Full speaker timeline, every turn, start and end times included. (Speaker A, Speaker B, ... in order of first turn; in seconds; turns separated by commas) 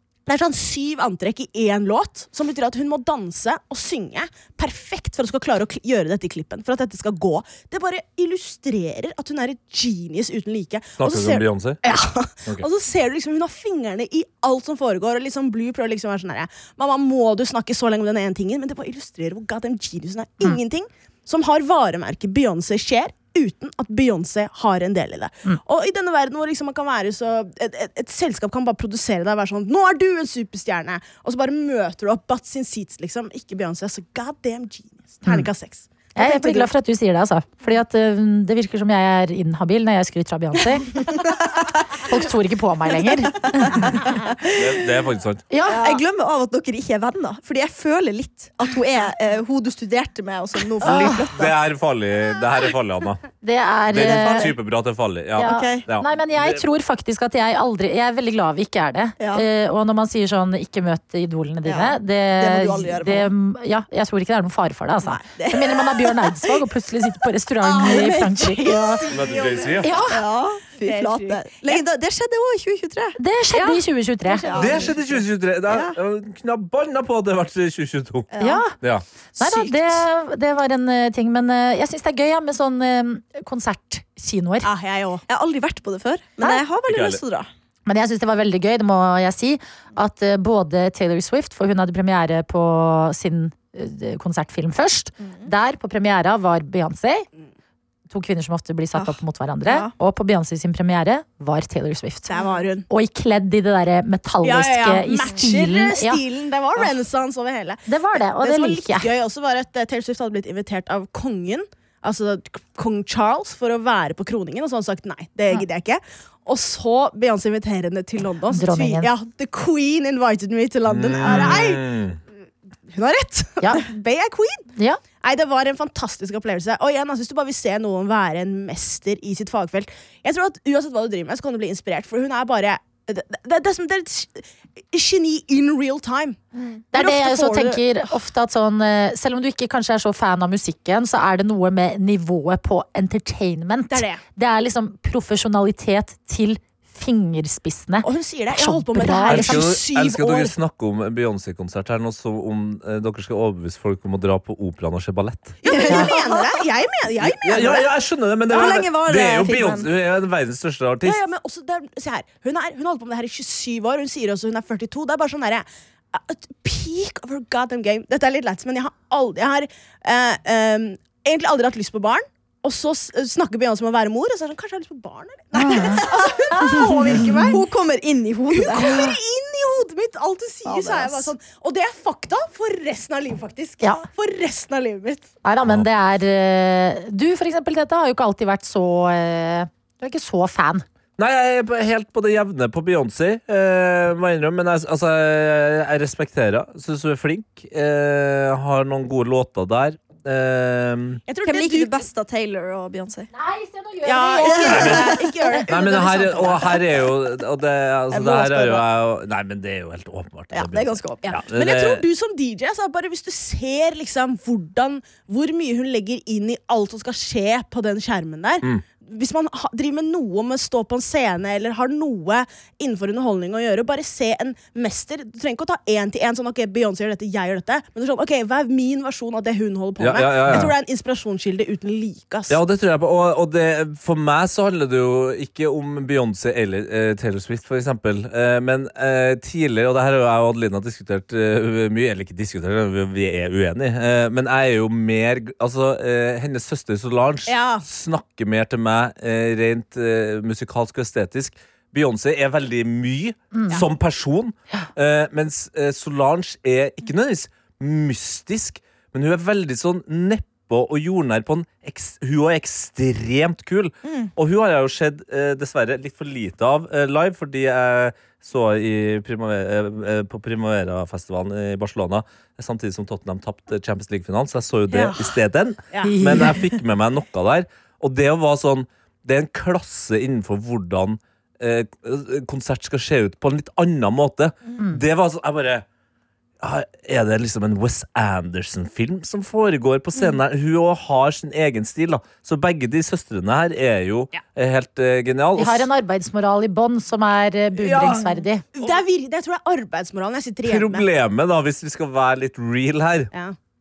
Speaker A: 0.2-36.7, Speaker B: 11.0-11.8, Speaker C: 36.1-41.3, Speaker D: 41.1-41.6, Speaker C: 41.9-44.0, Speaker D: 43.5-44.6, Speaker B: 44.5-45.4, Speaker C: 45.5-46.0, Speaker D: 45.6-51.5, Speaker B: 50.8-53.2, Speaker C: 50.8-51.2, Speaker C: 53.4-54.5, Speaker D: 53.9-54.5, Speaker B: 53.9-56.6, Speaker C: 55.4-69.0, Speaker D: 55.4-55.9, Speaker D: 59.2-59.4, Speaker D: 61.6-63.3, Speaker D: 65.0-66.6, Speaker D: 67.6-76.0, Speaker A: 67.9-69.8, Speaker B: 69.1-69.9, Speaker C: 69.8-70.2, Speaker A: 70.8-71.8, Speaker C: 73.2-74.5, Speaker A: 73.5-73.8, Speaker B: 74.5-78.3, Speaker D: 78.3-78.6, Speaker C: 78.4-78.7, Speaker D: 79.3-80.0, Speaker C: 79.4-84.7, Speaker A: 84.6-85.2, Speaker D: 85.3-87.5, Speaker B: 86.9-87.2, Speaker C: 87.8-97.2, Speaker D: 95.2-95.5, Speaker C: 98.1-102.3, Speaker D: 98.9-99.9, Speaker D: 102.3-102.6, Speaker A: 102.3-102.8, Speaker C: 102.9-106.2, Speaker A: 104.4-121.9, Speaker C: 107.9-109.1, Speaker C: 118.5-119.1, Speaker B: 120.8-122.2, Speaker A: 122.9-124.7, Speaker C: 123.6-123.8, Speaker A: 125.2-136.4, Speaker D: 136.5-136.8, Speaker C: 136.9-149.7, Speaker A: 136.9-137.8, Speaker A: 143.9-144.2, Speaker A: 148.0-150.5, Speaker B: 149.3-155.6, Speaker A: 155.6-157.8, Speaker D: 155.6-156.6, Speaker C: 155.9-156.1, Speaker B: 157.2-161.2, Speaker D: 158.5-159.9, Speaker A: 161.0-177.6, Speaker C: 175.6-176.0, Speaker D: 175.7-176.9, Speaker C: 176.5-177.5, Speaker D: 177.5-179.2, Speaker A: 178.5-185.3, Speaker D: 180.6-181.3, Speaker C: 185.4-190.8, Speaker B: 191.2-201.2, Speaker A: 201.3-202.0, Speaker D: 201.4-203.3, Speaker C: 203.3-205.1, Speaker A: 204.0-206.8, Speaker D: 204.4-205.6, Speaker B: 204.7-205.1, Speaker B: 205.7-212.0, Speaker D: 208.1-208.8, Speaker D: 210.5-211.3, Speaker A: 211.2-232.6, Speaker B: 230.0-230.7, Speaker B: 232.5-285.8, Speaker A: 247.5-247.8, Speaker C: 253.5-253.8, Speaker D: 264.0-264.3, Speaker A: 274.9-275.3, Speaker C: 276.0-276.6, Speaker B: 286.6-295.9, Speaker C: 295.6-298.6, Speaker A: 297.8-301.0, Speaker B: 297.9-298.2, Speaker B: 300.6-303.3